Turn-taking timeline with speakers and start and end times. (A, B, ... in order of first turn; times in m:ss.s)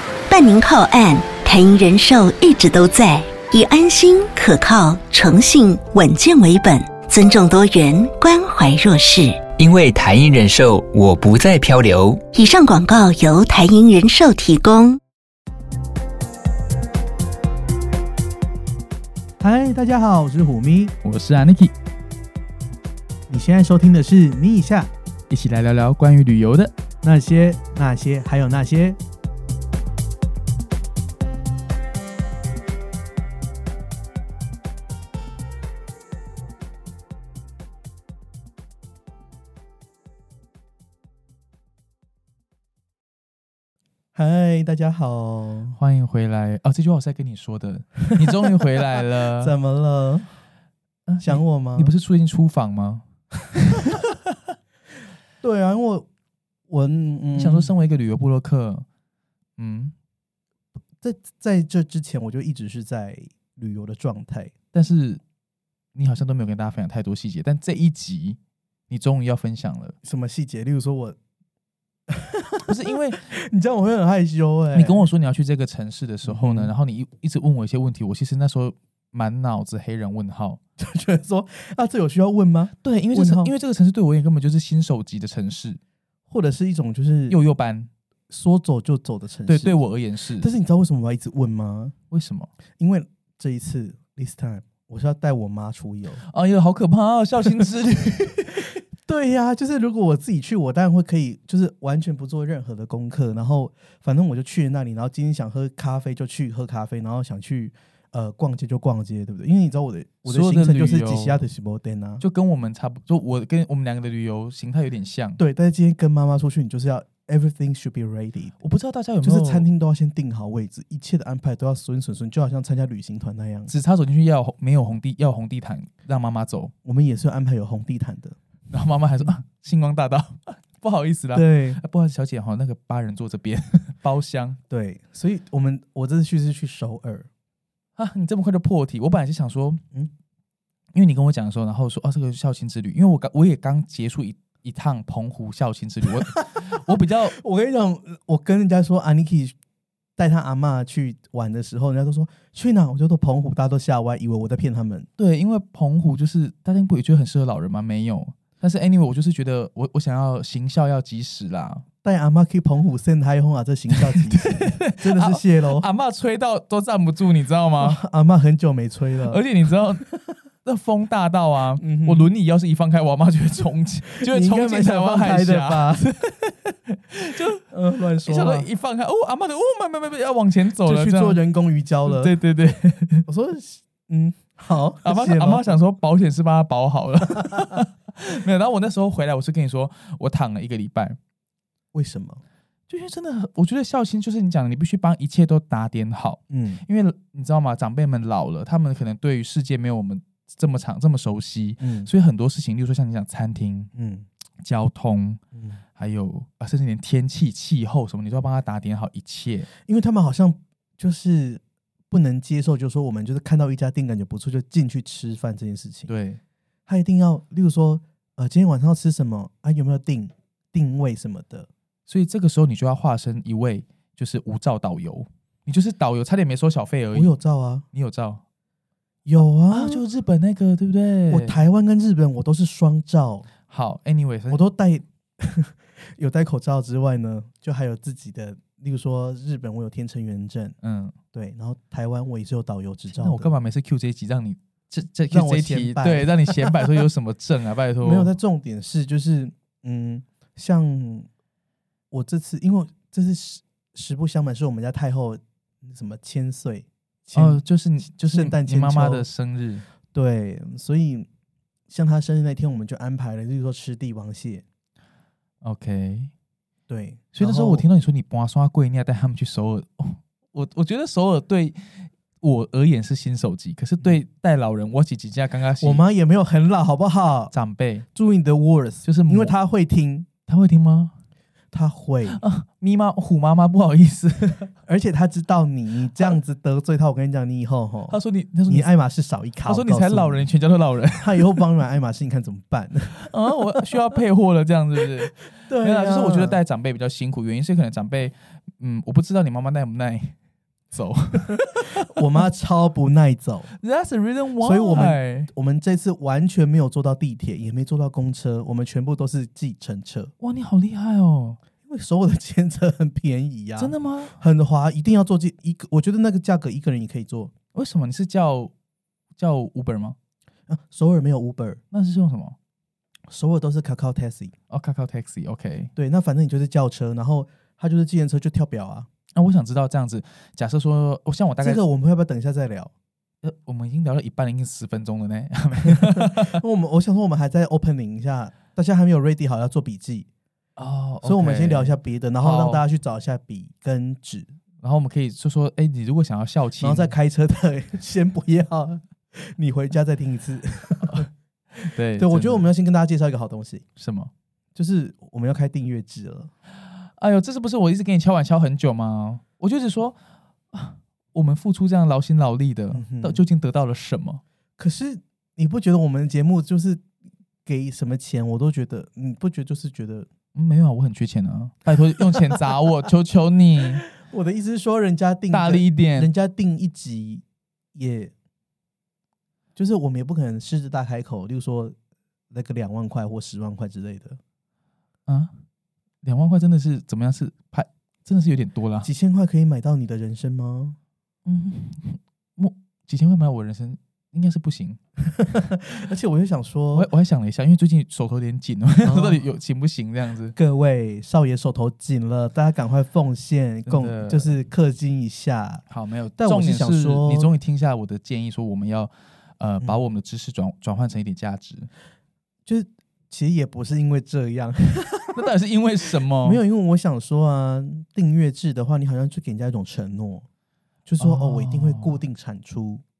0:00.3-0:09.4 A
0:09.6-0:12.2 B
0:12.3-0:15.0 A
0:19.4-0:20.9 C
0:21.0-0:21.7 D
0:23.3-0:24.9 C
0:25.3-0:26.7 D
0:27.0-0:29.0 C
0:44.1-0:45.8 C
0:45.8-0:49.6 D
0:49.4-0:50.3 C
0:51.1-0:53.0 D
0:51.2-0:51.9 C
0:53.7-0:54.0 D
0:55.4-0:56.1 C
0:56.7-0:57.7 C
0:57.4-0:58.8 D
0:59.6-0:59.9 D
1:01.0-1:04.5 C
1:04.7-1:05.2 D
1:05.9-1:08.4 D
1:08.9-1:10.0 D
1:10.0-1:11.2 C
1:12.1-1:15.1 C
1:12.6-1:13.3 D
1:14.7-1:20.6 D
1:16.2-1:16.7 C
1:20.8-1:23.5 C
1:22.8-1:25.8 D
1:26.3-1:27.4 C
1:27.3-1:27.9 D
1:28.3-1:29.8 C
1:29.4-1:30.5 D
1:30.4-1:31.9 C
1:32.1-1:32.5 D
1:32.8-1:36.2 C
1:36.2-1:38.7 D
1:39.0-1:52.2 C
1:50.2-1:51.4 D
1:52.2-1:55.4 D
1:55.4-1:58.6 C
1:58.6-1:59.7 D
1:59.2-2:03.7 C
2:03.7-2:06.7 D
2:06.8-2:08.4 C
2:08.7-2:14.6 D
2:11.3-2:11.8 C
2:14.7-2:17.3 C
2:18.0-2:19.8 D
2:20.9-2:27.4 D
2:26.4-2:29.6 C
2:30.2-2:35.1 C
2:35.2-2:41.8 D
2:42.0-2:45.8 C
2:43.9-2:48.0 D
2:47.8-2:49.4 C
2:49.2-2:50.1 D
2:50.6-2:57.7 D
2:51.8-2:52.3 C
2:54.2-2:56.1 C
2:57.7-2:58.7 C
2:58.2-3:01.4 D
3:00.8-3:02.3 C
3:02.0-3:03.3 D
3:03.3-3:05.6 C
3:05.0-3:11.2 D
3:11.9-3:12.4 C
3:12.9-3:23.9 D
3:16.5-3:16.8 C
3:21.8-3:22.1 C
3:23.9-3:24.2 C
3:24.6-3:25.4 D
3:26.0-3:29.7 D
3:29.8-3:36.1 C
3:36.1-3:36.4 D
3:36.9-3:41.7 C
3:42.1-3:47.3 D
3:47.1-3:47.8 C
3:47.9-3:48.4 D
3:49.2-3:50.0 C
3:49.7-3:51.6 D
3:51.3-3:53.5 C
3:53.7-3:54.6 D
3:54.5-4:00.7 C
4:00.8-4:01.2 D
4:01.3-4:03.5 C
4:03.1-4:08.3 D
4:05.3-4:06.8 C
4:08.0-4:11.3 C
4:12.1-4:17.6 C
4:17.3-4:19.9 D
4:18.2-4:19.3 C
4:20.1-4:21.3 C
4:21.9-4:24.6 C
4:25.6-4:26.3 D
4:26.9-4:27.8 C
4:27.3-4:36.0 D
4:35.8-4:37.5 C
4:37.5-4:38.0 D
4:38.1-4:40.3 C
4:39.0-4:39.5 D
4:40.5-4:41.1 D
4:41.7-4:42.4 C
4:42.3-4:44.7 D
4:44.8-4:48.2 C
4:48.1-4:48.9 D
4:48.7-4:50.5 C
4:49.6-4:51.5 D
4:51.2-4:53.2 C
4:53.2-5:00.3 D
4:55.6-4:56.6 C
5:00.9-5:02.2 D
5:02.0-5:03.7 C
5:03.8-5:05.5 D
5:04.6-5:10.3 C
5:10.4-5:11.6 D
5:11.8-5:17.5 C
5:13.8-5:14.3 D
5:17.7-5:18.7 D
5:19.4-5:20.2 D
5:20.7-5:21.8 C
5:21.9-5:22.6 D
5:23.3-5:24.5 C
5:24.7-5:25.9 D
5:26.0-5:29.1 C
5:29.3-5:31.8 D
5:31.6-5:32.9 C
5:33.4-5:36.6 D
5:35.9-5:40.3 C
5:40.8-5:42.8 D
5:41.2-5:44.5 C
5:44.8-5:47.1 D
5:46.8-5:51.3 C
5:51.0-5:51.3 D
5:51.8-5:52.7 D
5:52.2-5:53.8 C
5:54.0-5:54.3 D
5:54.8-5:56.5 C
5:57.2-6:00.2 D
6:00.7-6:04.4 D
6:02.9-6:03.4 C
6:04.8-6:07.0 C
6:07.6-6:10.3 C
6:10.5-6:14.0 D
6:14.1-6:17.4 C
6:15.5-6:16.3 D
6:17.9-6:18.3 C
6:19.8-6:22.0 C
6:22.5-6:24.4 C
6:25.3-6:25.5 D
6:26.2-6:29.1 D
6:29.0-6:31.0 C
6:31.4-6:35.0 D
6:35.3-6:37.1 C
6:36.9-6:40.6 D
6:39.0-6:39.4 C
6:40.6-6:45.8 C
6:43.9-6:44.6 D
6:45.9-6:51.9 D
6:46.4-6:47.5 C
6:52.6-6:55.5 C
6:55.3-6:56.6 D
6:56.4-7:00.4 C
7:01.0-7:03.0 C
7:01.2-7:02.2 D